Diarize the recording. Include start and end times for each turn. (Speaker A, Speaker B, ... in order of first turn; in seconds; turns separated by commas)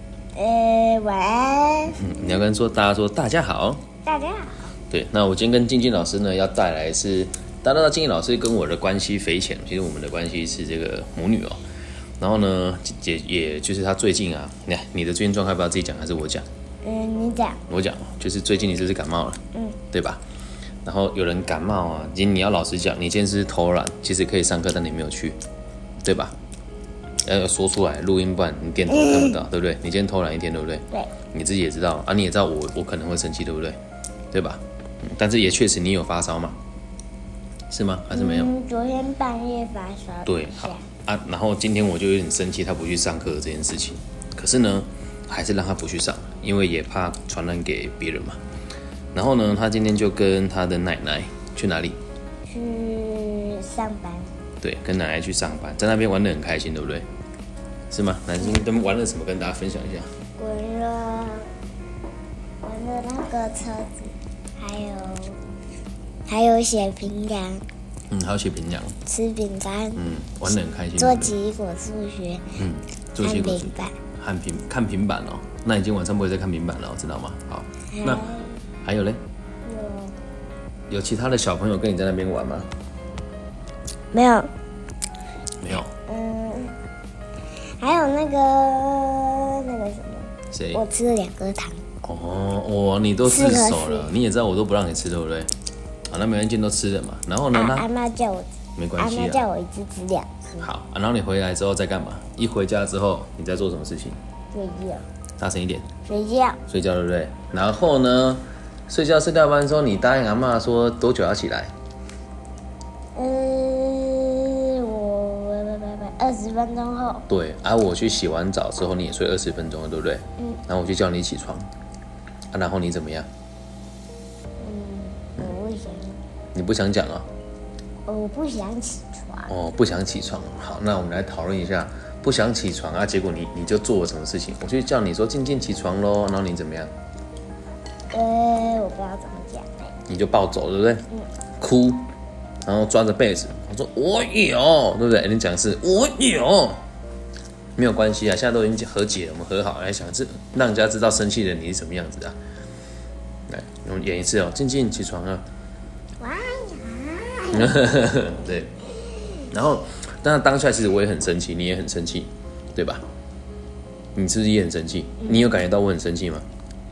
Speaker A: 0.3-2.2, Speaker B: 1.9-3.9, Speaker A: 4.0-4.8, Speaker B: 4.9-11.6, Speaker B: 12.2-16.4, Speaker A: 16.8-17.6, Speaker B: 17.7-20.2, Speaker B: 20.9-25.4, Speaker B: 26.0-26.3, Speaker B: 27.2-33.8, Speaker A: 28.9-29.4, Speaker B: 34.3-36.6, Speaker B: 37.7-38.5, Speaker A: 38.1-40.9, Speaker B: 40.3-48.4, Speaker B: 49.1-52.0, Speaker A: 52.5-54.3, Speaker B: 54.6-57.1, Speaker B: 57.9-60.1, Speaker A: 60.4-61.5, Speaker A: 62.6-65.4, Speaker A: 66.3-67.7, Speaker B: 68.1-69.0, Speaker A: 69.1-70.0, Speaker B: 70.0-71.4, Speaker A: 71.0-72.6, Speaker B: 72.6-78.3, Speaker A: 73.2-74.0, Speaker A: 77.9-78.6, Speaker B: 78.8-79.2, Speaker A: 79.7-80.2, Speaker B: 80.9-82.7, Speaker A: 84.1-84.5, Speaker B: 85.6-85.9, Speaker A: 86.1-86.8, Speaker A: 87.8-92.1, Speaker B: 90.5-90.8, Speaker B: 92.0-95.5, Speaker A: 93.2-94.1, Speaker B: 96.1-97.9, Speaker A: 97.5-100.7, Speaker B: 98.8-99.4, Speaker B: 100.6-104.2, Speaker A: 104.5-105.0, Speaker B: 105.4-105.9, Speaker A: 106.1-106.6, Speaker B: 106.7-111.7, Speaker A: 113.2-117.3, Speaker B: 117.3-121.7, Speaker B: 122.5-123.3, Speaker A: 124.6-126.2, Speaker B: 126.5-127.3, Speaker A: 128.1-129.5, Speaker B: 129.5-136.9, Speaker A: 138.1-139.9, Speaker B: 140.1-141.1, Speaker B: 141.6-142.1, Speaker B: 142.7-146.8, Speaker B: 147.8-152.4, Speaker B: 153.5-155.4, Speaker A: 156.2-158.1, Speaker B: 157.5-158.7, Speaker A: 159.0-159.4, Speaker B: 159.5-163.1, Speaker B: 164.2-166.5, Speaker A: 165.2-165.5